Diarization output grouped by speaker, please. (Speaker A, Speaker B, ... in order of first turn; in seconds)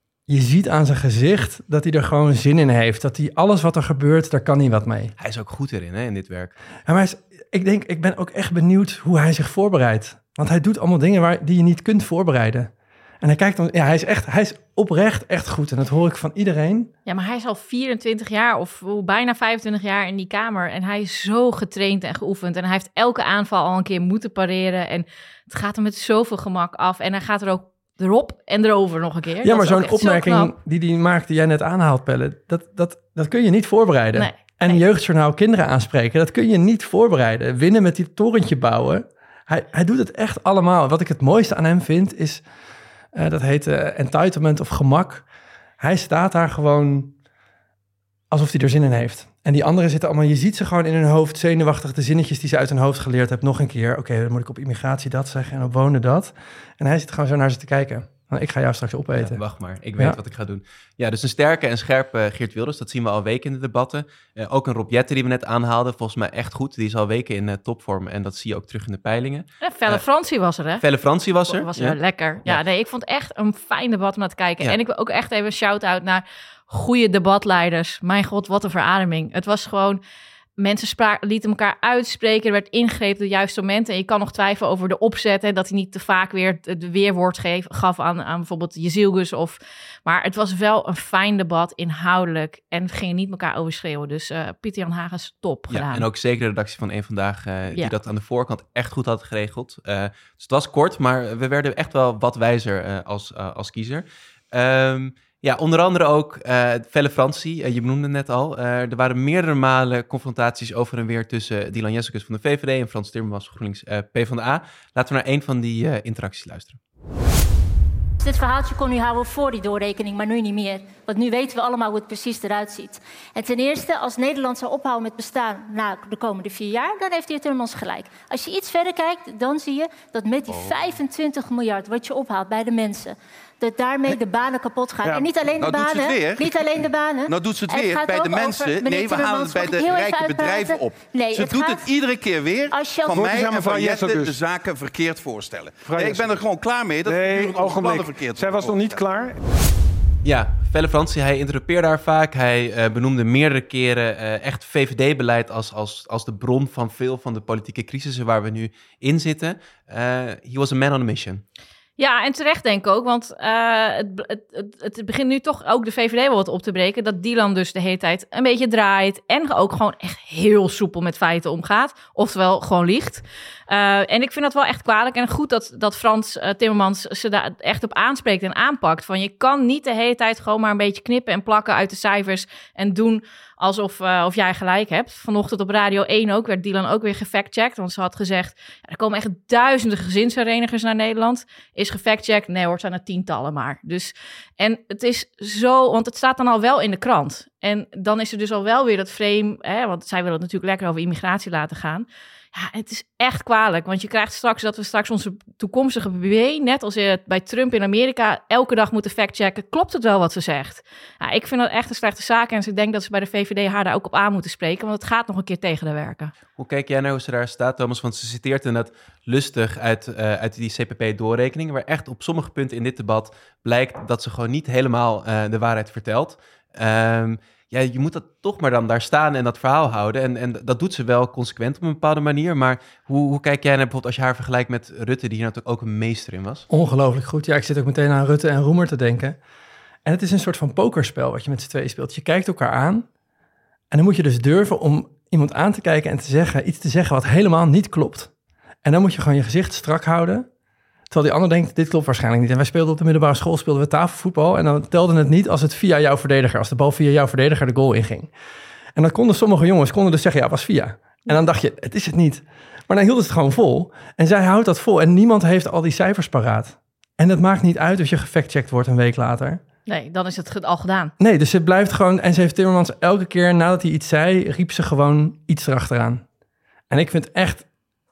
Speaker A: 0.3-5.1, 6.8-16.9, 29.4-42.4, 43.1-45.2, 45.8-47.1, 48.3-59.4, 236.7-239.4, 240.0-243.1, 243.9-248.3, 248.8-250.5, 251.1-258.3, 258.9-269.6, 271.2-276.2, 276.9-277.6
Speaker B: 5.2-6.5, 59.2-70.0, 70.8-72.6, 95.7-116.8, 150.2-161.4, 216.6-236.7
Speaker C: 17.1-30.5, 34.1-34.8, 69.6-70.8, 71.4-80.0, 80.6-96.0, 162.0-216.3, 269.9-271.1
Speaker D: 118.2-141.9, 142.7-143.4
Speaker E: 135.6-149.0
Speaker F: 143.6-144.3, 145.9-146.2, 147.1-149.4